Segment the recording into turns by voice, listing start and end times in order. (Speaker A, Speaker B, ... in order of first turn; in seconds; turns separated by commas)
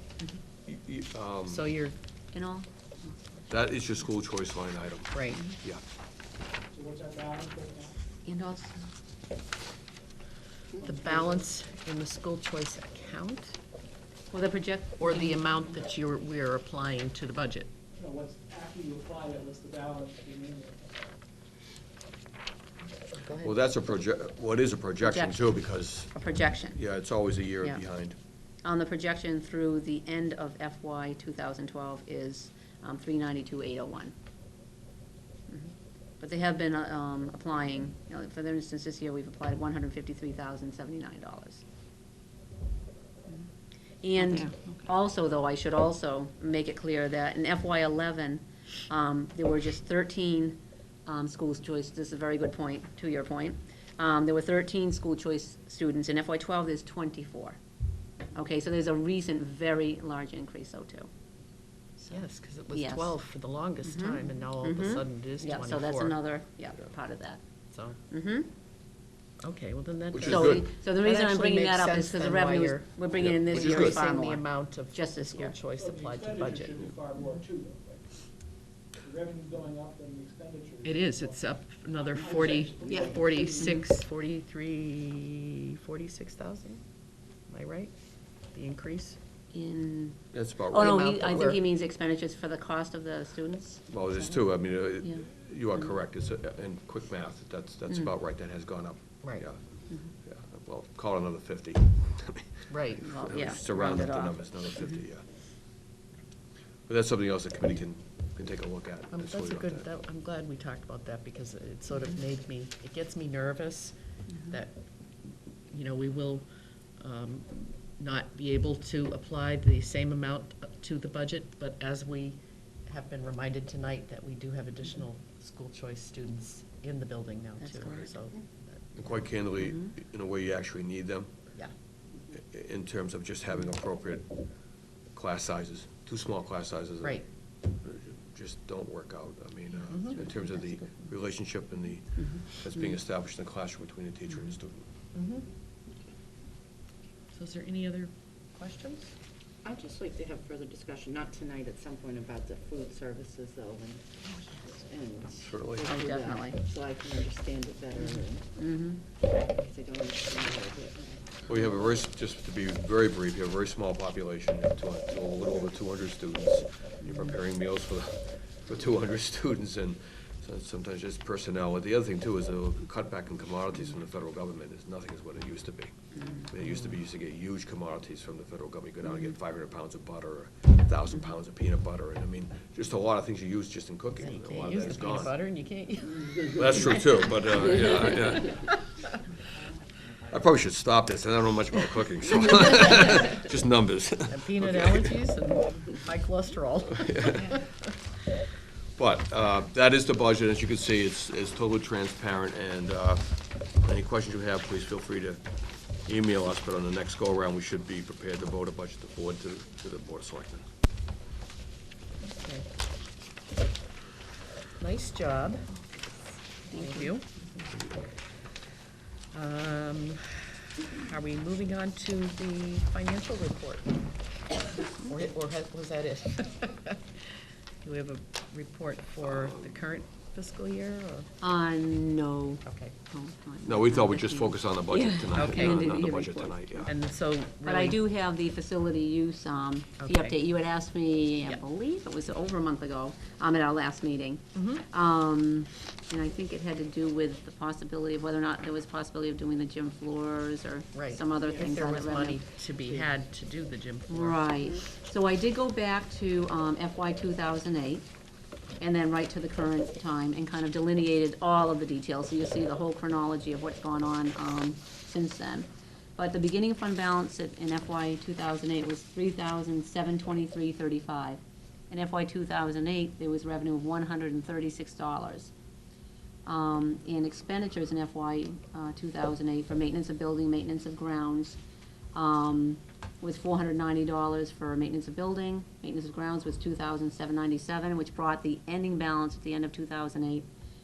Speaker A: 0.7-1.7, Speaker B: 1.4-1.9, Speaker C: 2.3-3.2, Speaker A: 3.5-5.8, Speaker B: 5.1-5.4, Speaker D: 6.7-8.0, Speaker C: 8.2-8.9, Speaker B: 10.8-13.6, Speaker C: 14.3-15.4, Speaker B: 15.0-17.7, Speaker D: 17.9-21.0, Speaker A: 23.4-28.1, Speaker C: 25.0-25.5, Speaker C: 26.1-26.8, Speaker C: 28.6-34.1, Speaker C: 35.5-41.6, Speaker C: 44.0-57.6, Speaker C: 58.3-61.1, Speaker B: 62.1-66.2, Speaker C: 62.7-63.1, Speaker C: 63.8-67.4, Speaker B: 67.7-68.0, Speaker C: 68.1-68.5, Speaker B: 69.4-72.9, Speaker A: 70.1-70.7, Speaker C: 70.2-75.5, Speaker A: 73.2-74.0, Speaker B: 73.5-76.9, Speaker D: 75.7-78.2, Speaker D: 79.0-81.4, Speaker B: 80.8-86.8, Speaker D: 82.0-83.8, Speaker C: 82.8-83.8, Speaker B: 87.5-87.9, Speaker B: 88.5-89.2, Speaker C: 89.5-94.4, Speaker A: 90.3-91.5, Speaker B: 90.8-91.6, Speaker A: 93.9-99.6, Speaker A: 100.2-105.2, Speaker B: 102.7-104.1, Speaker C: 103.0-104.6, Speaker A: 106.9-109.8, Speaker B: 109.1-116.5, Speaker B: 117.0-129.2, Speaker C: 127.6-128.1, Speaker A: 129.0-131.3, Speaker C: 129.6-129.9, Speaker A: 132.3-134.4, Speaker A: 135.1-144.9, Speaker B: 139.9-140.2, Speaker B: 145.1-145.5, Speaker B: 147.3-149.1, Speaker E: 149.6-158.4, Speaker A: 155.4-155.9, Speaker C: 155.8-156.6, Speaker C: 158.6-159.0, Speaker E: 159.2-161.8, Speaker A: 161.5-185.3, Speaker C: 176.2-176.5, Speaker B: 184.2-189.1, Speaker A: 186.4-188.8, Speaker A: 190.3-195.1, Speaker B: 194.3-197.8, Speaker A: 197.0-197.6, Speaker A: 199.0-205.4, Speaker A: 206.0-210.6, Speaker B: 212.2-212.7, Speaker B: 214.8-215.7, Speaker C: 216.7-217.1, Speaker B: 216.7-217.4, Speaker B: 219.3-224.0, Speaker B: 224.9-227.1, Speaker B: 227.8-231.3, Speaker A: 229.2-229.8, Speaker C: 231.4-236.9, Speaker B: 232.6-232.9, Speaker A: 233.6-236.9, Speaker B: 235.3-235.9, Speaker B: 236.8-238.0, Speaker C: 237.6-252.4, Speaker B: 240.0-240.3, Speaker B: 244.5-244.8, Speaker B: 250.9-254.4, Speaker C: 254.1-258.1, Speaker C: 258.8-275.5, Speaker C: 276.4-281.6, Speaker C: 282.1-290.5